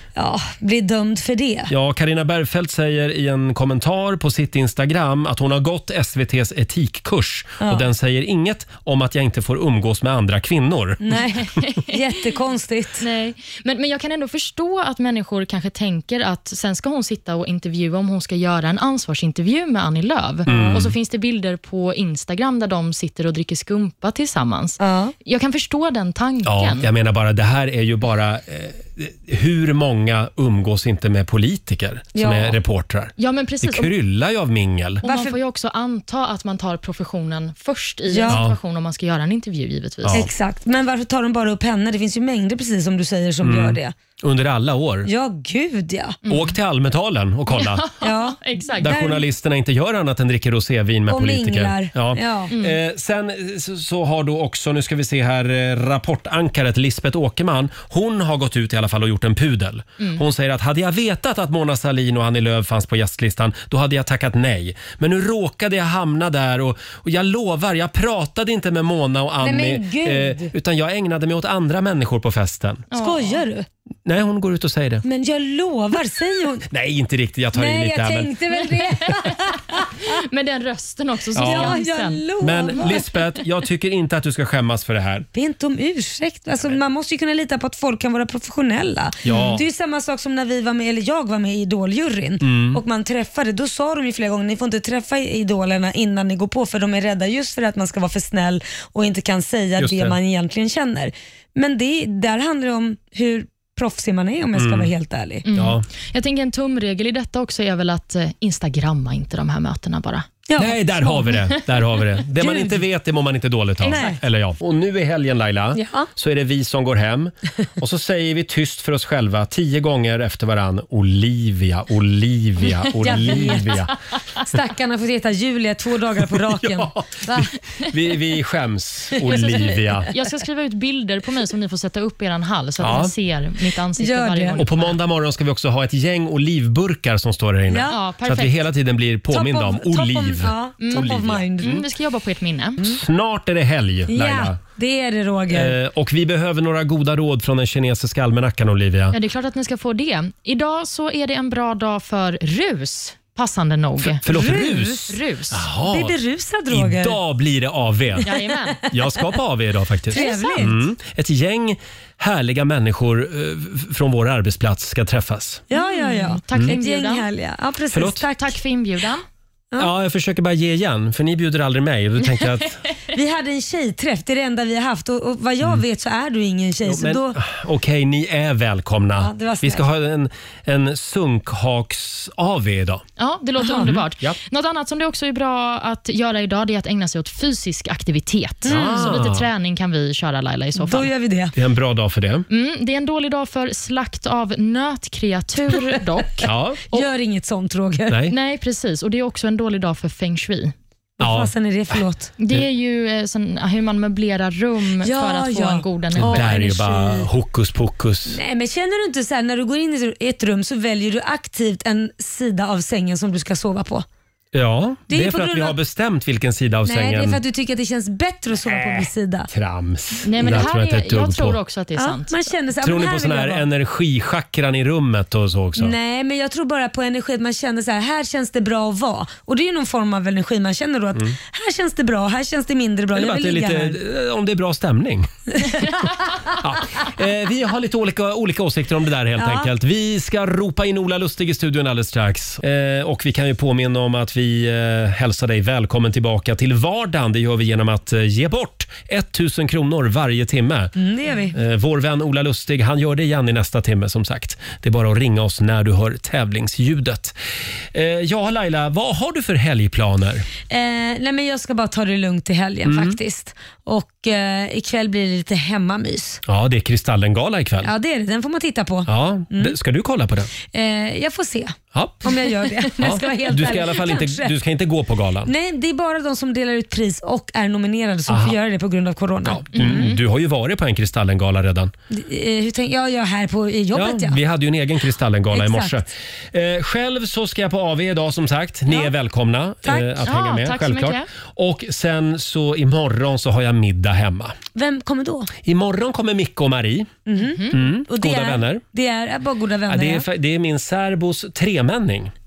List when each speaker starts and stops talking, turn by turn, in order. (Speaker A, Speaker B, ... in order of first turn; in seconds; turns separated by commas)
Speaker A: 0.2-1.7, Speaker B: 1.7-11.0, Speaker A: 7.6-7.9, Speaker A: 11.0-13.1, Speaker C: 13.0-26.9, Speaker A: 20.5-20.8, Speaker B: 20.5-21.0, Speaker A: 24.8-25.1, Speaker B: 26.4-35.0, Speaker A: 32.1-32.6, Speaker C: 33.2-33.9, Speaker A: 35.0-35.4, Speaker C: 35.0-40.3, Speaker A: 38.1-38.4, Speaker B: 38.3-38.6, Speaker B: 40.0-40.3, Speaker A: 40.1-43.9, Speaker B: 43.4-45.1, Speaker A: 45.1-46.2, Speaker C: 46.2-46.6, Speaker B: 46.3-47.9, Speaker C: 47.5-49.0, Speaker A: 48.0-49.2, Speaker B: 48.8-72.9, Speaker A: 51.1-52.5, Speaker C: 52.5-52.8, Speaker A: 69.4-70.5, Speaker C: 72.9-73.4, Speaker A: 73.0-73.7, Speaker B: 74.0-75.0, Speaker A: 75.0-76.7, Speaker B: 76.7-78.3, Speaker A: 77.5-80.1, Speaker C: 80.1-82.2, Speaker B: 81.4-81.8, Speaker A: 81.4-83.0, Speaker B: 82.4-85.3, Speaker A: 85.3-105.5, Speaker B: 89.2-89.6, Speaker B: 92.4-92.8, Speaker B: 99.8-100.2, Speaker B: 104.5-104.9, Speaker C: 105.5-110.3, Speaker B: 105.5-105.8, Speaker A: 110.5-111.6, Speaker B: 110.6-123.9, Speaker A: 112.4-112.8, Speaker A: 113.8-114.2, Speaker A: 115.7-116.1, Speaker A: 123.0-123.9, Speaker A: 124.4-127.5, Speaker B: 126.3-130.1, Speaker A: 129.3-129.6, Speaker C: 130.1-135.0, Speaker B: 132.8-133.1, Speaker A: 134.0-134.6, Speaker B: 134.6-141.7, Speaker A: 137.7-138.0, Speaker C: 137.9-138.6, Speaker A: 139.3-141.8, Speaker C: 140.8-142.9, Speaker B: 142.8-144.6, Speaker A: 144.1-145.8, Speaker B: 145.5-149.2, Speaker C: 149.1-154.2, Speaker B: 154.0-156.2, Speaker A: 154.2-155.1, Speaker C: 155.1-155.7, Speaker A: 155.9-157.2, Speaker B: 156.7-158.3, Speaker C: 158.2-158.8, Speaker B: 158.8-165.6, Speaker A: 160.1-160.8, Speaker C: 160.2-160.6, Speaker A: 165.7-168.5, Speaker C: 165.7-167.3, Speaker B: 167.9-168.3, Speaker C: 168.3-169.2, Speaker B: 169.8-172.8, Speaker A: 173.1-177.4, Speaker B: 176.9-183.0, Speaker A: 179.2-179.8, Speaker C: 183.2-191.1, Speaker A: 183.6-183.9, Speaker B: 183.8-184.4, Speaker B: 188.7-189.5, Speaker A: 188.7-189.1, Speaker A: 190.8-191.5, Speaker B: 191.6-192.5, Speaker C: 192.5-196.5, Speaker B: 196.4-197.0, Speaker A: 196.9-198.2, Speaker B: 198.1-198.3, Speaker C: 198.3-200.7, Speaker A: 201.2-202.3, Speaker B: 201.2-202.6, Speaker C: 202.4-206.6, Speaker A: 205.0-207.3, Speaker B: 206.2-208.4, Speaker A: 208.3-214.1, Speaker B: 214.5-217.4, Speaker A: 215.1-215.8, Speaker A: 216.9-219.5, Speaker B: 219.5-221.6, Speaker C: 220.2-222.3, Speaker A: 220.4-220.7, Speaker A: 222.0-223.7, Speaker B: 222.8-225.9, Speaker A: 225.8-234.0, Speaker B: 233.1-235.3, Speaker A: 235.6-236.0, Speaker B: 236.5-250.9, Speaker A: 239.4-239.7, Speaker A: 251.0-251.6, Speaker B: 251.5-257.4, Speaker B: 257.9-260.5, Speaker A: 260.7-266.4, Speaker B: 262.9-263.2, Speaker B: 266.5-267.9, Speaker A: 267.8-269.8, Speaker B: 269.1-270.5, Speaker A: 270.7-274.5, Speaker B: 271.9-275.5, Speaker A: 275.5-280.1, Speaker B: 278.3-278.6, Speaker B: 279.4-281.9, Speaker C: 279.8-280.2, Speaker A: 282.1-284.4, Speaker B: 283.9-294.6, Speaker A: 285.5-286.0, Speaker A: 289.8-290.3, Speaker C: 290.3-291.3, Speaker A: 294.8-295.5, Speaker B: 295.6-297.2, Speaker A: 297.3-300.3, Speaker C: 297.4-297.7, Speaker B: 297.7-298.8, Speaker B: 299.9-302.3